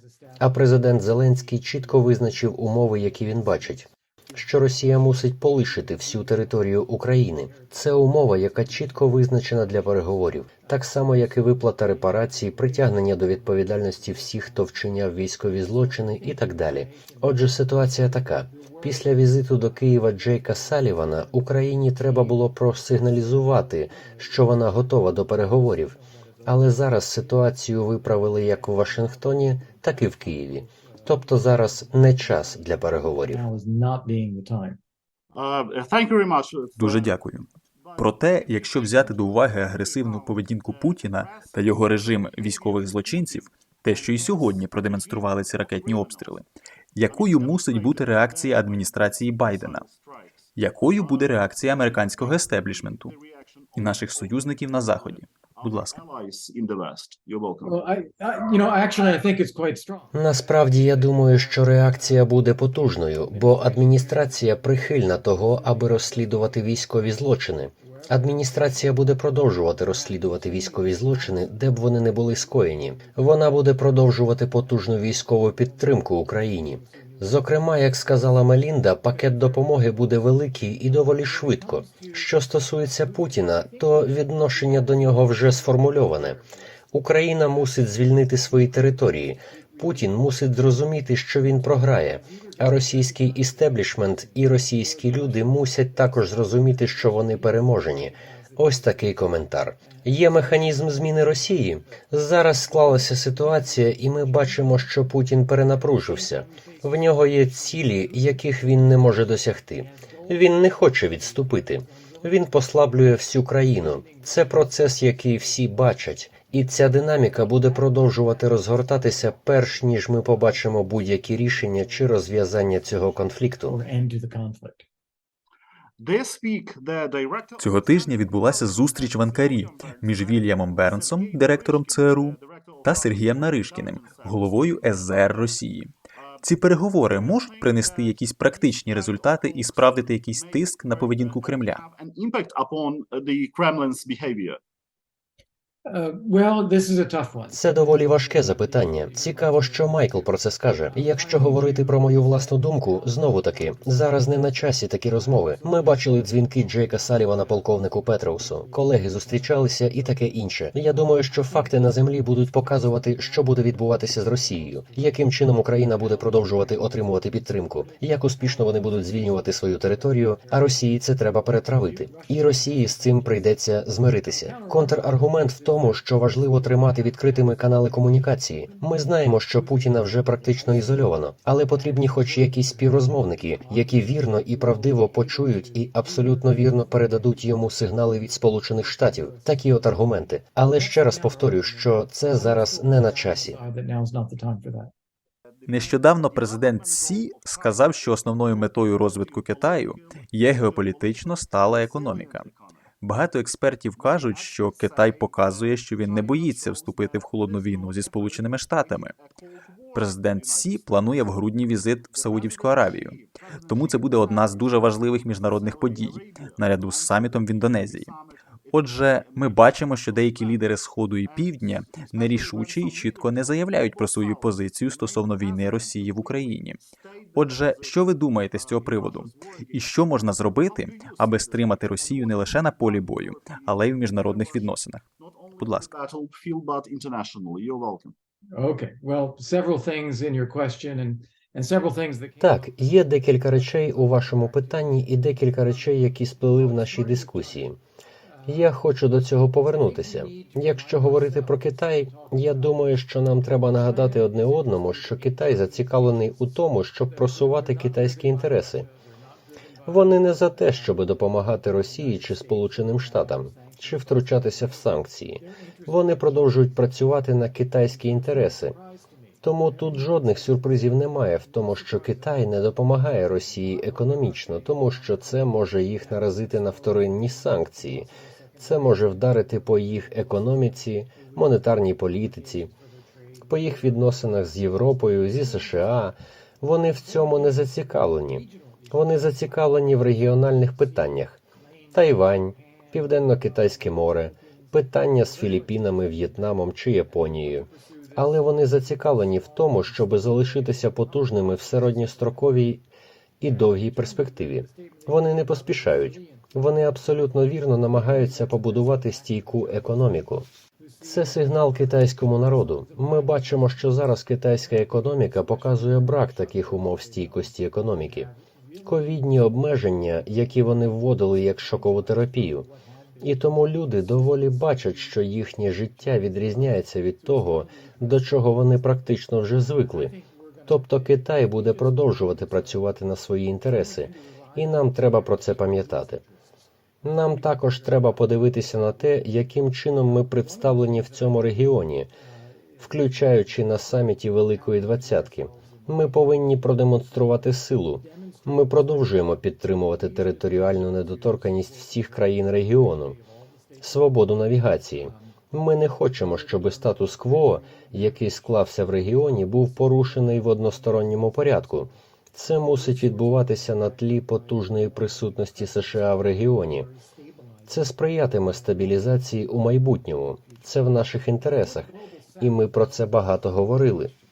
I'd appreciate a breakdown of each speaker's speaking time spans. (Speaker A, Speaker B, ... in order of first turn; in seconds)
Speaker A: 0.4-33.4, 60.1-123.8, 147.5-193.6, 242.4-247.8, 248.4-258.9, 259.9-268.8, 269.4-282.7, 283.5-291.4, 291.9-302.8, 303.4-310.5, 311.0-318.3, 318.8-322.7, 323.2-336.2, 337.0-342.1, 342.8-353.2, 353.8-366.9, 367.7-374.1
Speaker B: 33.3-34.8, 57.6-60.1, 123.7-124.8, 145.8-147.6, 192.6-194.9, 238.5-242.4
Speaker C: 35.3-37.1, 37.9-46.3, 47.1-50.3, 50.8-57.8, 126.0-135.3, 137.2-144.6, 195.7-202.7, 204.0-209.3, 209.9-210.8, 212.2-214.7, 215.4-220.6, 221.2-226.5, 227.1-238.1
Speaker D: 36.8-49.8, 50.6-53.1, 53.8-56.0, 127.6-135.9, 136.4-141.8, 195.7-202.5, 203.0-209.1, 209.9-218.1, 218.7-226.8, 227.3-235.0, 235.6-235.9